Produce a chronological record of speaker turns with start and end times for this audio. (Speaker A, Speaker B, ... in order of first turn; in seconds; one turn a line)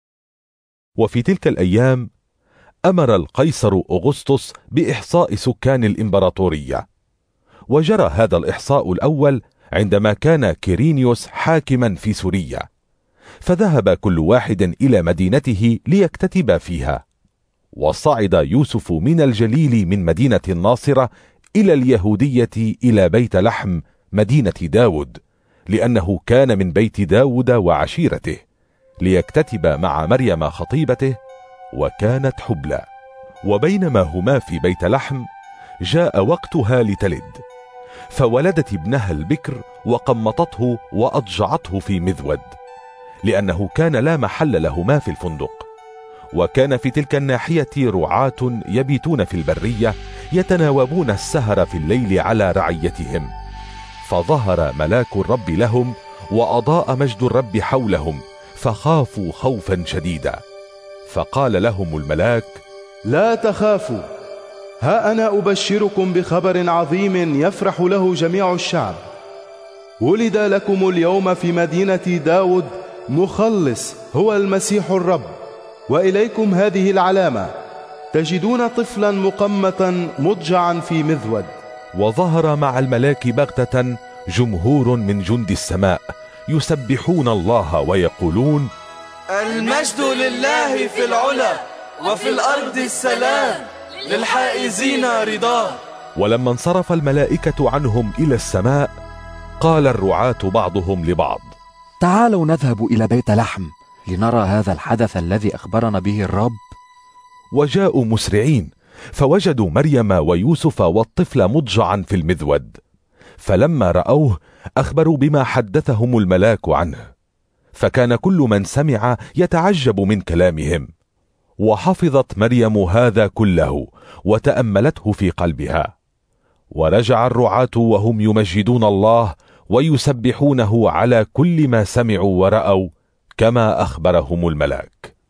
Speaker A: 1.0-2.0
Speaker A: 2.9-6.8
Speaker A: 7.7-12.7
Speaker A: 13.4-17.0
Speaker A: 17.8-25.2
Speaker A: 25.7-28.4
Speaker A: 29.0-31.1
Speaker A: 31.8-32.8
Speaker A: 33.5-35.2
Speaker A: 35.9-37.4
Speaker A: 38.1-42.5
Speaker A: 43.3-45.6
Speaker A: 46.3-53.3
Speaker A: 54.1-60.4
Speaker A: 61.1-62.6
Speaker B: 63.0-64.1
Speaker B: 64.8-69.0
Speaker B: 70.0-75.3
Speaker B: 75.9-77.5
Speaker B: 78.1-81.6
Speaker A: 82.0-88.7
Speaker C: 89.3-95.8
Speaker A: 96.2-98.9
Speaker A: 99.6-101.5
Speaker D: 102.0-106.6
Speaker A: 107.5-112.8
Speaker A: 113.4-117.0
Speaker A: 117.8-120.9
Speaker A: 121.6-125.9
Speaker A: 126.7-132.9
Speaker A: 133.4-135.1